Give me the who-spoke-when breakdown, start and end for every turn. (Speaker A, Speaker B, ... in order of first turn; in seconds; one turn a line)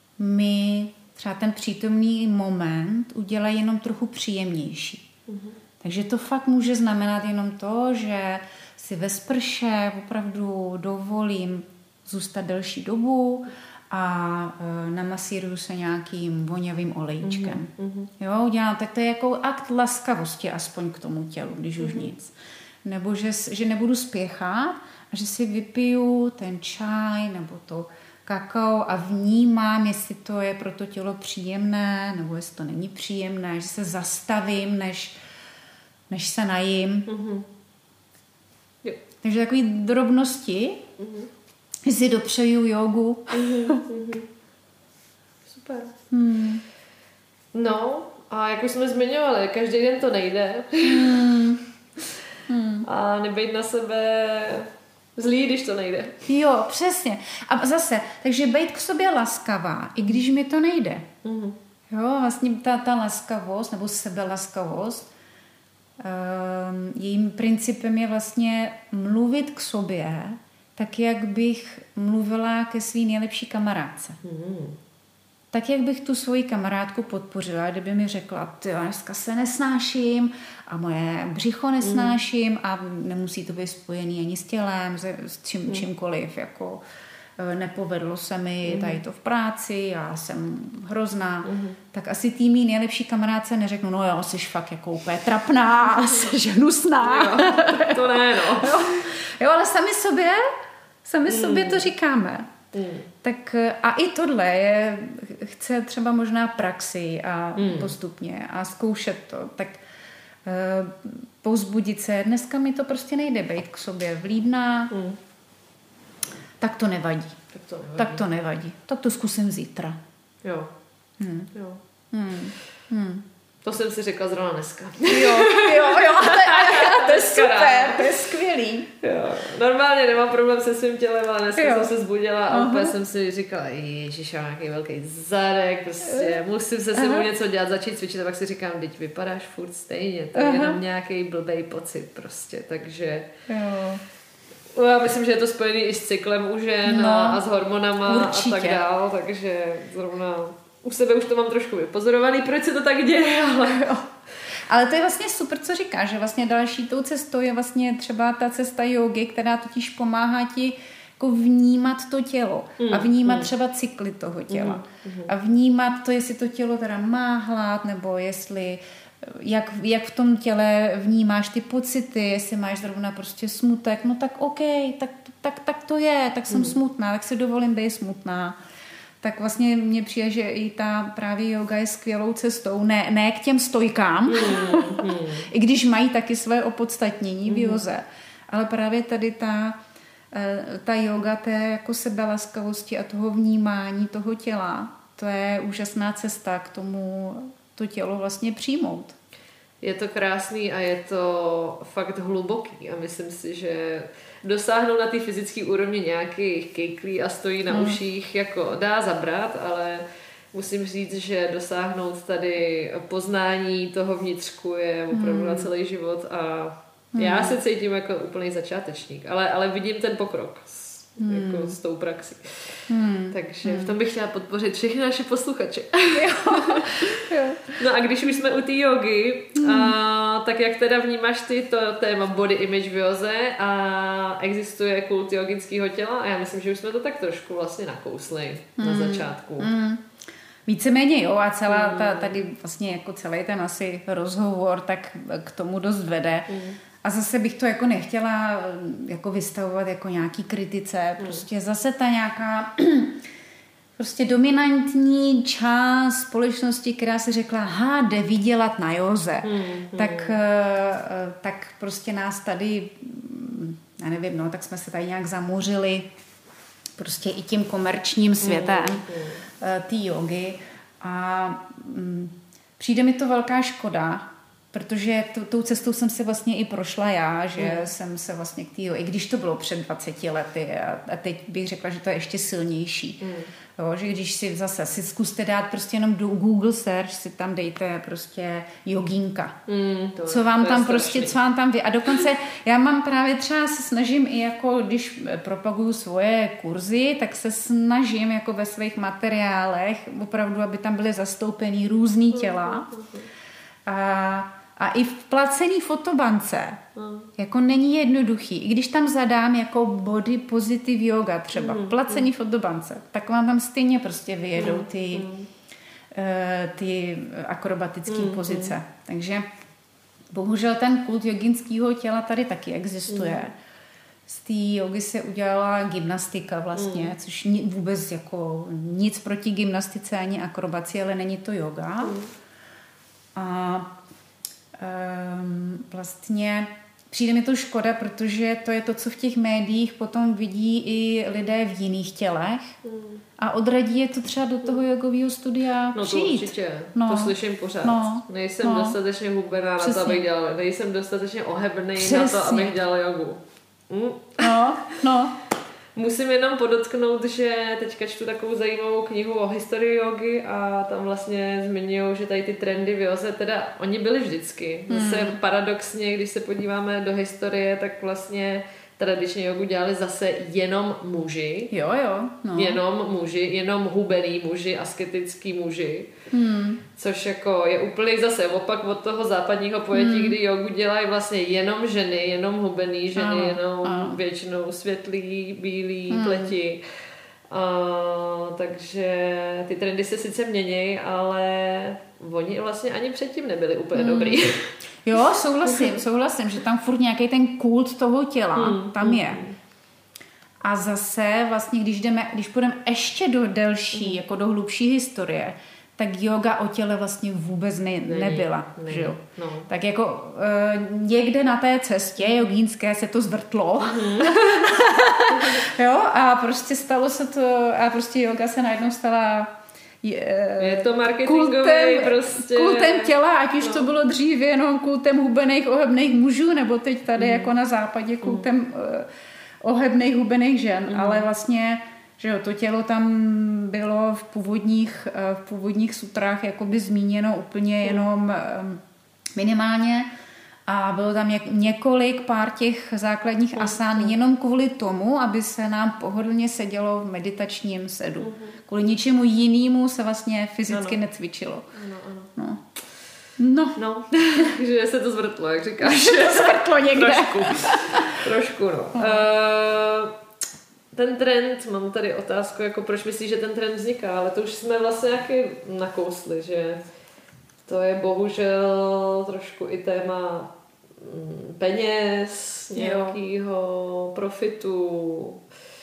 Speaker A: 0.2-5.1
Speaker B: 5.3-5.5
Speaker A: 5.8-22.3
Speaker B: 17.2-18.1
Speaker B: 21.8-22.1
Speaker A: 22.8-35.2
Speaker A: 36.1-37.1
Speaker B: 37.1-37.5
Speaker A: 39.2-40.8
Speaker B: 41.0-41.3
Speaker A: 41.8-43.8
Speaker B: 43.3-44.3
Speaker B: 45.5-45.9
Speaker A: 46.1-46.6
Speaker B: 47.5-51.3
Speaker A: 50.8-51.6
Speaker A: 52.5-52.9
Speaker B: 52.8-56.2
Speaker A: 56.2-61.1
Speaker B: 61.2-61.5
Speaker A: 61.9-65.1
Speaker A: 66.0-74.2
Speaker B: 74.2-74.8
Speaker A: 75.5-86.8
Speaker B: 81.8-82.2
Speaker A: 87.4-100.5
Speaker B: 88.6-89.0
Speaker B: 91.4-91.8
Speaker B: 97.0-99.0
Speaker A: 101.0-102.5
Speaker B: 101.2-101.9
Speaker B: 102.7-103.1
Speaker A: 103.2-109.8
Speaker B: 107.5-107.9
Speaker A: 110.4-114.9
Speaker B: 114.9-115.2
Speaker A: 116.6-117.4
Speaker B: 117.5-118.2
Speaker A: 118.0-120.0
Speaker B: 120.4-120.7
Speaker A: 121.2-121.5
Speaker B: 121.5-121.8
Speaker A: 122.1-123.2
Speaker B: 123.6-128.2
Speaker A: 125.0-128.9
Speaker B: 129.0-143.3
Speaker A: 131.5-131.9
Speaker A: 132.5-132.9
Speaker A: 136.0-136.4
Speaker A: 136.9-137.3
Speaker A: 140.3-140.8
Speaker A: 143.5-144.0
Speaker B: 144.7-154.1
Speaker A: 146.8-147.4
Speaker A: 148.0-148.8
Speaker A: 154.7-178.6
Speaker B: 162.8-163.5
Speaker B: 164.5-165.3
Speaker B: 176.5-176.8
Speaker A: 179.2-189.8
Speaker B: 184.3-185.5
Speaker B: 187.4-187.8
Speaker A: 190.3-199.1
Speaker B: 199.8-227.2
Speaker A: 207.7-208.0
Speaker A: 215.1-215.7
Speaker A: 217.1-217.6
Speaker A: 221.2-221.8
Speaker A: 222.9-223.9
Speaker A: 226.1-227.8
Speaker B: 227.8-239.7
Speaker A: 229.6-229.9
Speaker A: 238.8-240.1
Speaker A: 240.7-246.5
Speaker B: 241.7-242.4
Speaker B: 246.5-246.8
Speaker A: 247.0-253.2
Speaker A: 254.0-266.1
Speaker B: 259.4-260.4
Speaker A: 267.0-283.2
Speaker B: 268.4-269.4
Speaker B: 277.6-277.9
Speaker B: 283.2-283.5
Speaker A: 283.8-289.6
Speaker B: 289.7-291.4
Speaker A: 290.2-302.9
Speaker B: 302.3-303.3
Speaker A: 303.9-306.8
Speaker B: 306.9-307.3
Speaker A: 307.4-315.3
Speaker B: 311.5-312.3
Speaker B: 314.6-315.5
Speaker A: 316.1-319.4
Speaker B: 318.1-318.7
Speaker A: 320.3-323.5
Speaker B: 323.1-323.5
Speaker A: 324.3-332.2
Speaker B: 326.7-327.1
Speaker B: 332.0-332.3
Speaker A: 333.4-333.9
Speaker A: 334.8-342.7
Speaker B: 342.8-343.2
Speaker A: 343.4-349.0
Speaker B: 345.9-355.0
Speaker A: 349.8-350.2
Speaker A: 351.9-352.8
Speaker A: 354.4-355.4
Speaker B: 355.9-371.7
Speaker A: 364.9-365.4
Speaker A: 371.7-372.8
Speaker B: 372.5-376.1
Speaker A: 376.3-376.8
Speaker B: 376.9-386.8
Speaker A: 379.9-380.4
Speaker A: 383.1-384.2
Speaker A: 386.1-386.6
Speaker B: 387.5-394.7
Speaker A: 393.9-394.4
Speaker A: 395.0-399.4
Speaker B: 395.6-395.9
Speaker B: 398.5-399.6
Speaker A: 400.6-429.1
Speaker B: 403.9-404.2
Speaker B: 408.0-409.7
Speaker B: 413.8-414.8
Speaker B: 415.3-415.7
Speaker B: 420.6-423.9
Speaker B: 427.2-427.5
Speaker B: 428.2-428.5
Speaker A: 429.6-438.8
Speaker B: 430.9-431.2
Speaker A: 439.4-440.1
Speaker A: 440.7-451.7
Speaker B: 443.5-444.1
Speaker B: 448.2-448.6
Speaker B: 450.7-451.0
Speaker B: 451.7-452.3
Speaker A: 452.4-452.6
Speaker A: 453.4-453.8
Speaker B: 453.8-460.1
Speaker A: 455.8-458.2
Speaker A: 458.9-459.3
Speaker B: 460.9-466.8
Speaker B: 467.6-475.4
Speaker A: 472.7-473.2